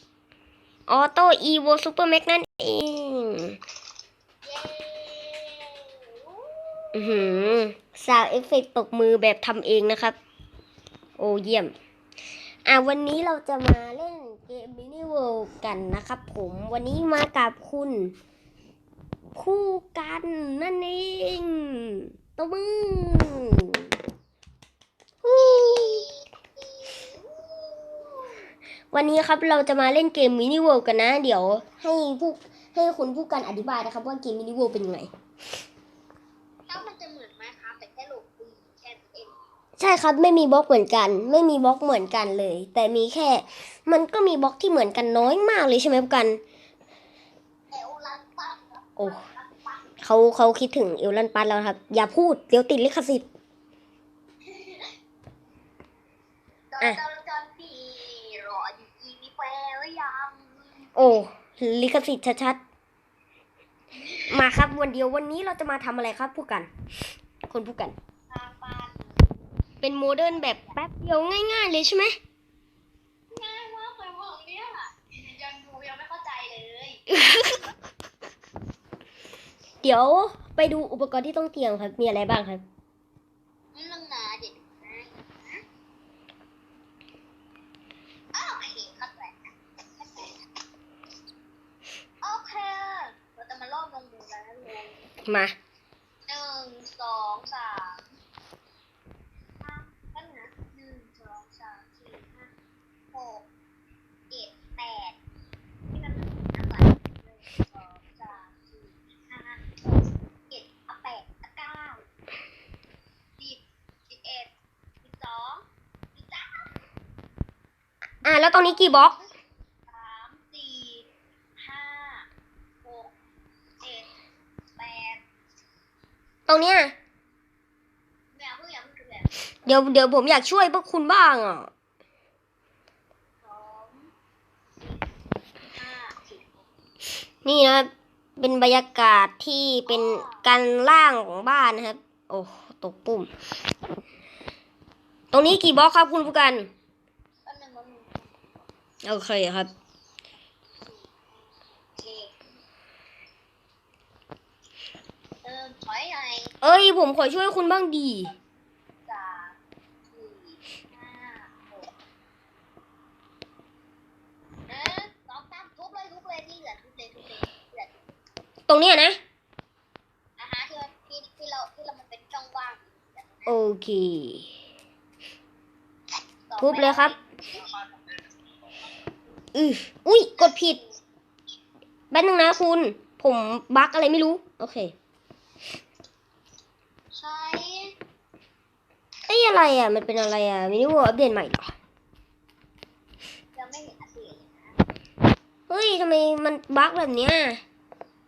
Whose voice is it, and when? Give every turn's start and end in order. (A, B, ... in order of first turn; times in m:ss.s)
0:00.9-0:03.6 A
0:04.4-0:07.5 B
0:06.9-0:10.2 A
0:11.2-0:11.7 A
0:12.6-0:18.1 A
0:19.4-0:23.9 A
0:25.2-0:26.0 A
0:25.3-0:28.5 B
0:28.9-0:35.1 A
0:36.7-0:39.4 B
0:39.8-0:46.4 A
0:47.7-0:49.9 B
0:50.0-0:53.2 A
0:54.4-0:54.9 B
0:56.7-1:00.9 B
1:01.0-1:02.6 A
1:03.9-1:04.4 B
1:04.3-1:06.7 A
1:07.5-1:08.0 A
1:08.3-1:10.8 B
1:09.8-1:12.1 A
1:13.3-1:17.2 B
1:17.1-1:17.6 A
1:19.8-1:22.6 A
1:23.7-1:25.6 B
1:28.3-1:30.4 B
1:32.2-1:35.1 B
1:35.3-1:35.5 A
1:36.3-1:38.0 B
1:39.6-1:42.5 B
1:43.1-1:43.5 B
1:44.3-1:45.2 B
1:45.9-1:52.1 B
1:53.4-1:56.7 B
1:58.2-1:59.1 A
1:58.6-1:59.3 B
1:59.9-2:02.3 B
2:02.8-2:03.1 B
2:03.8-2:04.2 B
2:04.7-2:05.2 B
2:06.5-2:06.9 A
2:08.3-2:09.3 B
2:09.6-2:11.7 A
2:13.4-2:14.1 B
2:14.8-2:15.0 B
2:15.6-2:16.7 B
2:17.4-2:23.3 A
2:19.9-2:20.4 B
2:25.3-2:26.7 A
2:27.4-2:28.5 B
2:29.0-2:29.7 A
2:30.8-2:32.4 B
2:35.4-2:36.5 B
2:36.6-2:38.3 A
2:39.0-2:39.6 B
2:40.1-2:41.9 B
2:44.7-2:48.1 B
2:48.7-2:49.2 A
2:50.4-2:53.6 B
2:53.5-2:54.5 A
2:56.5-2:58.0 B
2:56.6-2:57.1 A
2:59.5-3:00.8 A
3:00.3-3:01.0 B
3:02.1-3:04.9 A
3:07.1-3:08.0 B
3:09.3-3:11.7 A
3:13.5-3:14.8 B
3:15.7-3:17.6 A